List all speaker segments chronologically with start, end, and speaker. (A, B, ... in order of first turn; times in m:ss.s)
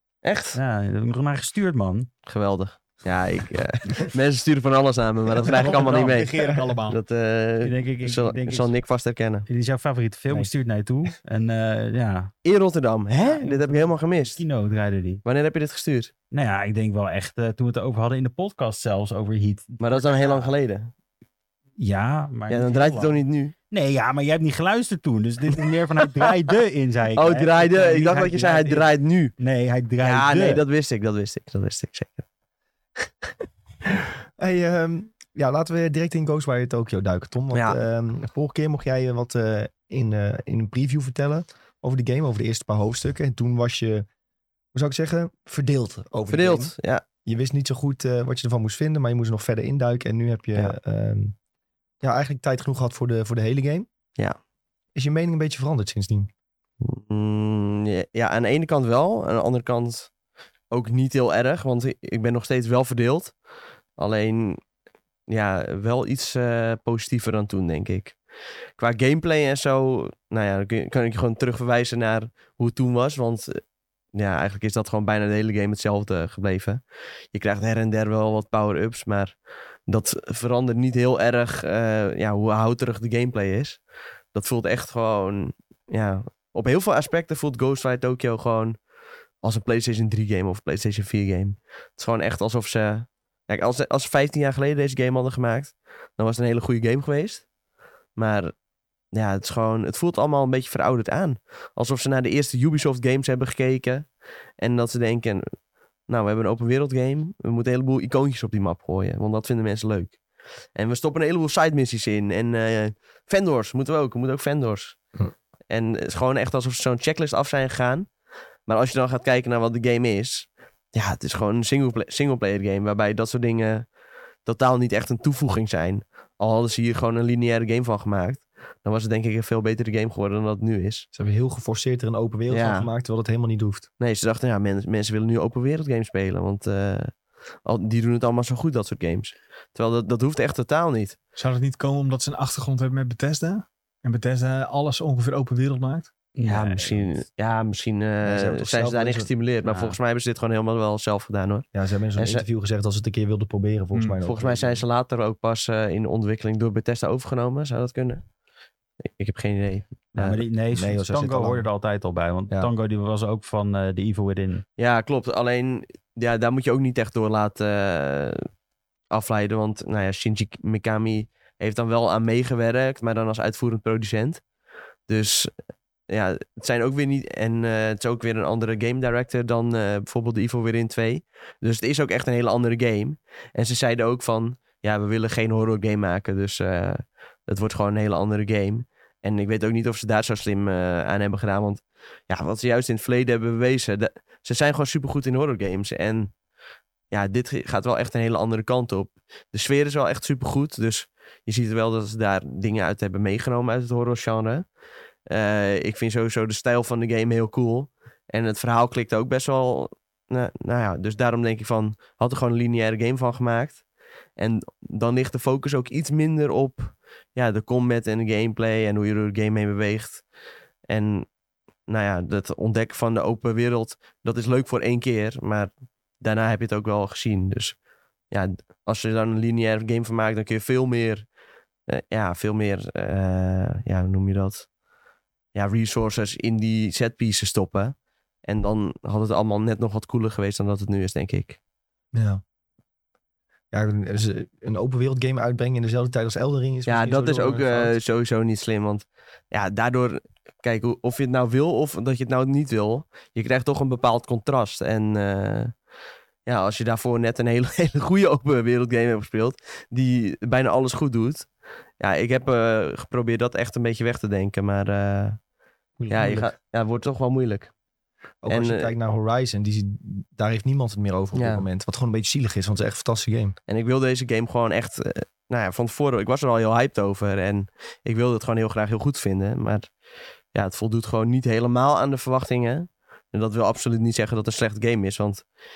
0:00.2-0:00.6 A
0:00.5-0:02.1 B
0:02.2-0:09.4 A
0:05.4-0:07.0 C
0:05.5-0:06.2 B
0:06.4-0:06.7 D
0:07.6-0:08.7 B
0:09.4-0:12.3 B
0:12.4-0:14.4 A
0:13.2-0:15.2 B
0:15.2-0:16.1 A
0:16.3-0:20.5 B
0:19.8-0:20.9 A
0:21.8-0:30.6 B
0:22.5-0:23.5 A
0:27.1-0:29.3 A
0:30.0-0:32.2 A
0:34.4-0:44.0 D
0:37.5-0:37.8 A
0:44.7-0:46.7 D
0:46.3-0:47.0 A
0:47.2-0:51.3 D
0:52.0-0:53.9 D
0:54.9-0:56.3 D
0:56.8-1:00.1 A
1:00.7-1:03.3 A
1:04.0-1:04.6 A
1:05.3-1:08.2 A
1:08.8-1:13.6 A
1:14.1-1:19.4 A
1:19.9-1:23.8 A
1:24.3-1:28.8 A
1:29.4-1:37.4 A
1:38.2-1:38.5 A
1:39.1-1:45.6 A
1:46.1-1:50.2 A
1:50.7-1:55.0 A
1:55.7-1:58.1 A
1:58.6-2:03.9 A
2:04.4-2:11.1 A
2:11.1-2:13.9 D
2:12.5-2:12.9 A
2:14.0-2:21.2 A
2:21.4-2:26.1 C
2:26.4-2:27.2 B
2:26.4-2:32.4 A
2:28.2-2:29.3 D
2:31.7-2:34.8 D
2:34.2-2:38.2 A
2:39.0-2:40.4 A
2:40.1-2:44.6 B
2:40.7-2:41.7 D
2:44.8-2:48.5 A
2:49.1-2:54.4 A
2:55.1-2:55.5 A
2:56.1-3:16.3 A
3:17.1-3:24.6 A
3:25.3-3:33.8 A
3:34.4-3:40.2 A
3:40.9-3:41.3 A
3:41.9-3:47.8 A
3:48.3-3:51.3 A
3:51.9-3:54.7 A
3:55.5-3:57.9 A
3:58.4-4:01.6 A
4:02.1-4:02.4 D
4:03.7-4:08.0 D
4:06.8-4:15.7 A
4:16.4-4:21.5 A
4:22.0-4:25.4 A
4:26.0-4:26.5 D
4:26.1-4:27.7 A
4:28.4-4:33.6 D
4:28.5-4:28.9 A
4:31.3-4:31.6 A
4:33.7-4:39.9 A
4:40.5-4:45.4 A